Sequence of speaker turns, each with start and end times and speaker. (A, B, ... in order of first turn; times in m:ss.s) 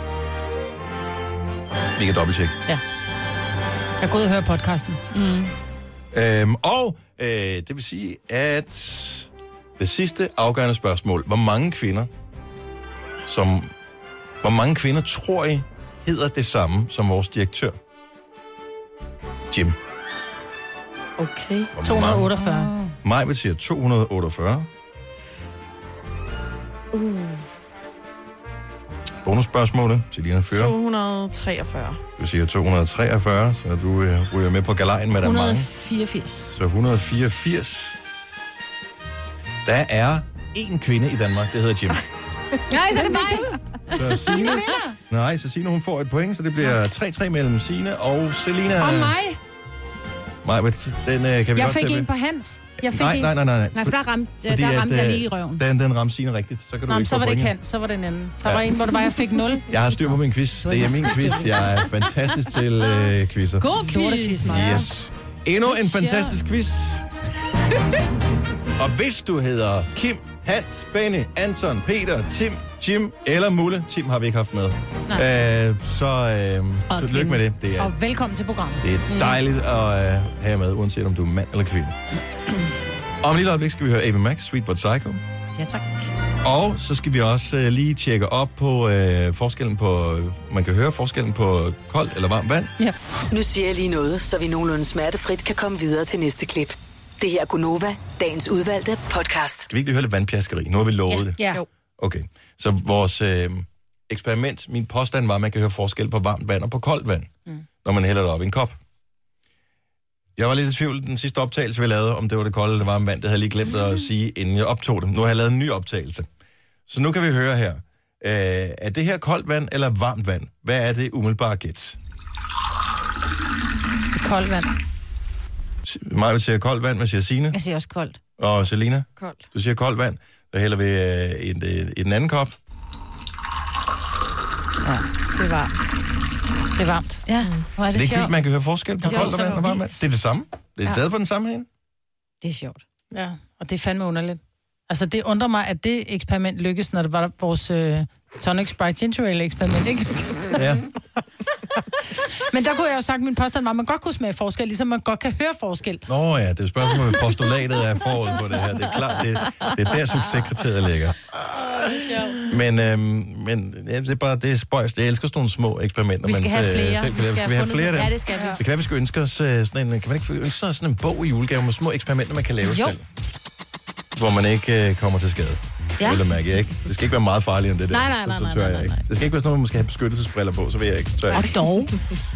0:02.0-0:02.6 A
0:04.0-0:05.0 B
0:05.1-0:05.5 C
0:06.1-0:12.1 A
0:13.3-0:13.7 A
0:14.4-0:17.8 A
0:19.5-0:19.8 A
0:21.2-0:21.7 D
0:21.7-0:22.3 A
0:21.8-0:22.7 B
0:22.4-0:22.9 C
0:23.0-0:24.7 A
0:26.9-0:27.5 D
0:29.2-0:30.8 A
0:30.5-0:32.0 D
0:32.2-0:35.7 A
0:35.1-0:36.6 C
0:36.5-0:38.0 A
0:39.6-0:42.0 A
0:42.7-0:44.8 C
0:42.9-0:43.6 B
0:43.9-0:49.2 A
0:44.1-0:44.9 B
0:48.8-0:49.4 B
0:50.4-0:52.1 A
0:51.6-0:53.3 B
0:52.9-0:57.5 A
0:53.8-0:55.6 C
0:56.9-0:59.7 B
0:59.7-1:03.7 A
1:00.6-1:01.9 B
1:03.6-1:04.8 C
1:03.8-1:04.9 B
1:04.4-1:07.1 A
1:05.6-1:06.4 C
1:08.8-1:17.9 A
1:17.0-1:17.3 C
1:17.2-1:19.3 B
1:18.8-1:22.0 A
1:23.2-1:25.2 A
1:25.6-1:26.1 C
1:26.4-1:32.7 A
1:33.3-1:39.6 E
1:39.7-1:41.4 A
1:41.4-1:41.6 B
1:42.0-1:47.3 A
1:47.8-1:48.8 A
1:50.4-1:56.3 A
1:56.9-2:02.0 A
2:04.2-2:04.7 B
2:05.8-2:07.6 A
2:07.5-2:08.2 C
2:08.4-2:12.6 A
2:09.2-2:09.4 D
2:15.3-2:15.7 D
2:16.8-2:17.2 B
2:17.3-2:18.4 C
2:17.4-2:17.7 D
2:17.9-2:21.7 A
2:19.0-2:20.0 C
2:19.0-2:19.6 B
2:22.4-2:22.8 C
2:23.1-2:30.8 B
2:30.6-2:30.8 A
2:32.4-2:36.0 B
2:36.1-2:41.2 A
2:42.5-2:53.0 A
2:46.2-2:48.6 C
2:52.6-2:52.9 C
2:54.2-3:01.5 A
2:57.9-2:59.1 C
3:01.3-3:01.9 C